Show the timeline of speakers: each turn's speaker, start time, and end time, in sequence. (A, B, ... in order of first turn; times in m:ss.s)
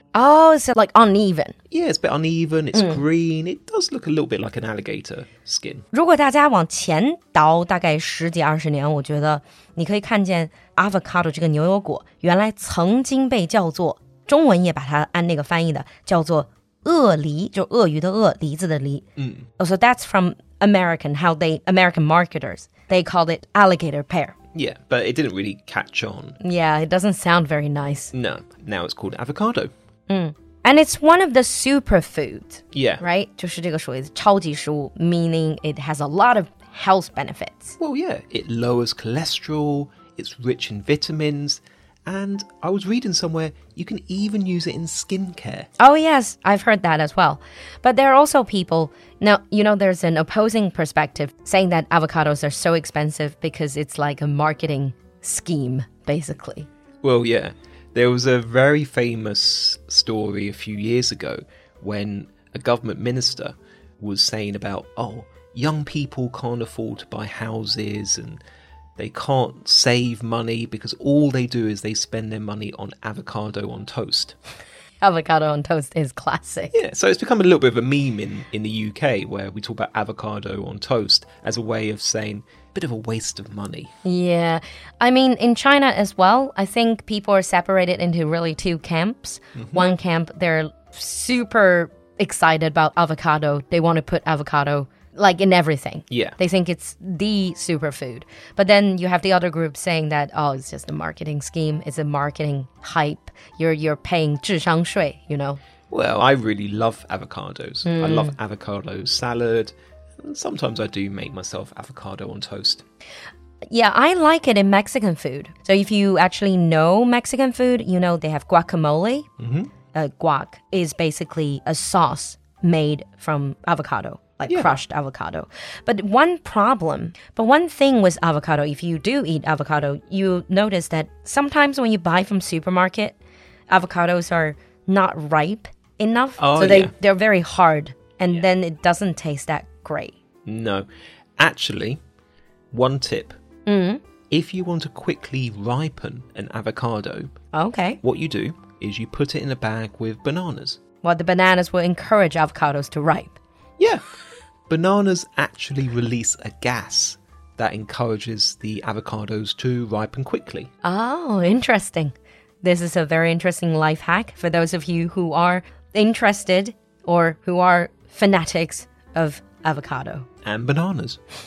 0:00.1-0:01.6 A
0:01.7-0:05.9 B
0:02.7-0:03.0 A
0:05.9-0:19.0 A
0:19.2-0:19.5 B
0:19.6-0:24.3 A
0:24.5-0:26.4 B
0:26.4-0:28.1 A
0:28.1-0:29.7 B
0:30.1-0:37.8 A
0:32.7-0:33.0 B
0:37.8-0:45.7 B
0:45.8-0:56.7 A
0:57.0-1:08.4 B
1:09.0-1:14.4 B
1:15.0-1:16.8 A
1:16.7-1:23.9 B
1:24.0-1:45.6 A
1:29.6-1:29.9 B
1:36.1-1:36.4 B
1:45.9-1:52.8 B
1:47.8-1:48.4 A
1:53.7-1:59.3 A
1:59.4-1:59.7 B
1:59.9-2:13.2 A
2:04.5-2:04.8 B
2:13.7-2:20.2 A
2:16.4-2:16.9 B
2:20.5-2:20.9 B
2:21.4-2:22.0 B
2:22.7-2:23.4 B
2:23.7-2:24.0 A
2:24.3-2:27.3 B
2:27.5-2:28.0 A
2:28.0-2:30.8 B
2:31.0-2:33.4 A
2:34.7-2:40.7 B
2:40.8-2:50.3 A
2:50.4-2:51.2 B